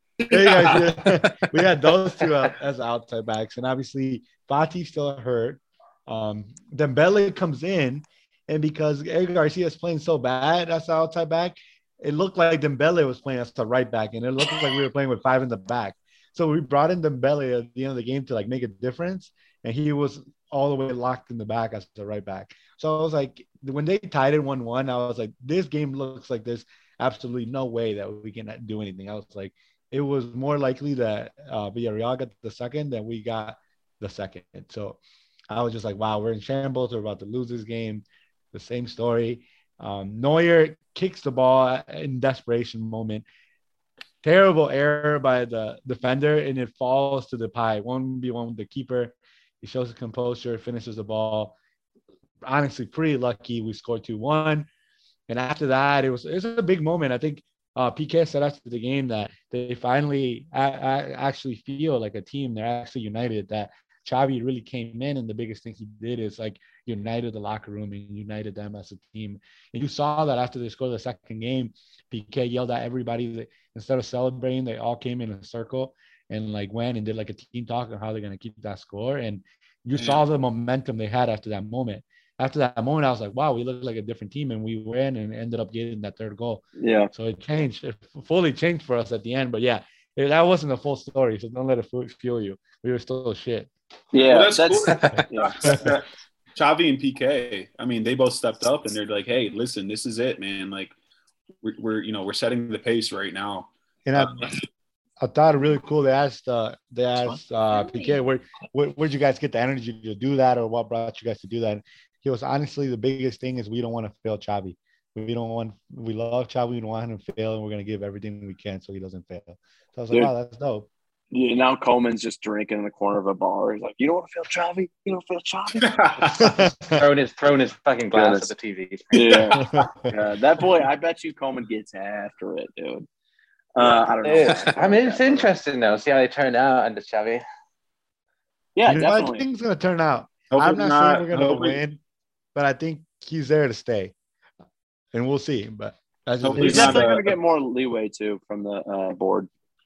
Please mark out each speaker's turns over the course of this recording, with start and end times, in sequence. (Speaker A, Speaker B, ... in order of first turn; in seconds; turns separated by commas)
Speaker A: 0.2-1.2, Speaker B: 0.3-35.0, Speaker B: 35.5-43.2, Speaker B: 44.2-51.5, Speaker B: 52.4-54.7, Speaker B: 55.3-93.7, Speaker A: 80.0-80.2, Speaker C: 86.8-87.1, Speaker C: 94.1-95.8, Speaker A: 94.3-100.9, Speaker A: 101.6-104.5, Speaker B: 104.0-104.5, Speaker B: 105.2-120.9, Speaker C: 121.3-126.0, Speaker A: 125.8-126.7, Speaker B: 126.4-127.0, Speaker D: 126.9-129.4, Speaker C: 128.1-128.5, Speaker C: 129.1-133.1, Speaker A: 129.2-129.8, Speaker B: 129.6-130.1, Speaker C: 133.7-135.5, Speaker D: 134.2-137.4, Speaker C: 138.7-139.4, Speaker B: 138.8-142.0, Speaker A: 140.5-141.8, Speaker B: 142.5-144.1, Speaker B: 145.1-147.1, Speaker A: 146.4-147.3, Speaker C: 146.6-149.5